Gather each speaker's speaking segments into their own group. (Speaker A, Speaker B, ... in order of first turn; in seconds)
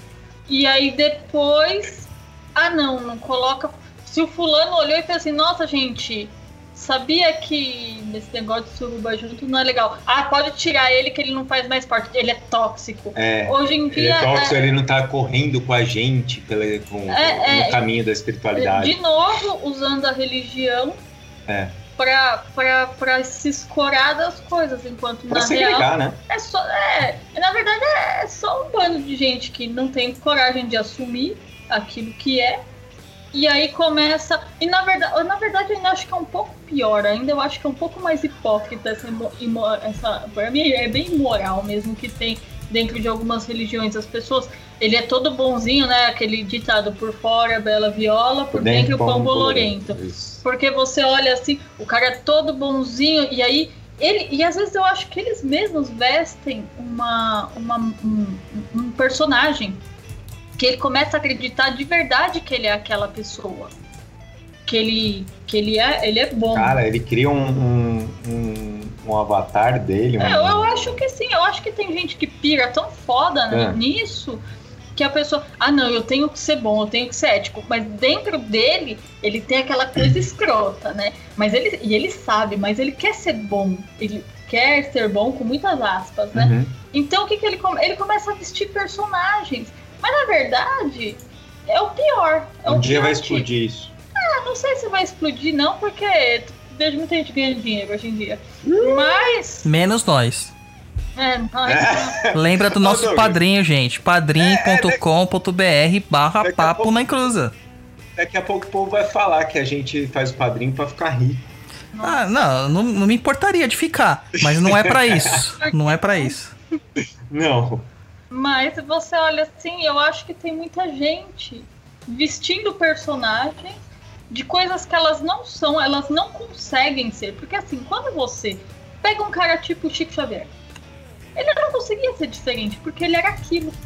Speaker A: 0.5-14.8, 17.1-17.8, 18.6-21.0, 22.0-32.6, 33.3-59.8, 60.6-63.7, 64.7-66.8, 70.2-74.4, 75.0-93.5, 94.2-99.7, 101.2-102.3, 111.9-112.3, 115.6-116.3, 118.3-123.8, 124.3-130.5, 131.4-133.7
Speaker B: 13.2-19.0, 21.5-21.8, 25.3-26.2, 48.5-50.4, 66.5-71.0, 73.5-73.8, 86.3-86.8, 92.7-93.9, 98.7-99.3, 101.7-103.4, 104.4-105.0, 106.4-107.0, 108.2-111.5, 114.5-115.4, 117.3-117.9
Speaker C: 99.6-100.5, 102.3-107.5, 112.0-116.5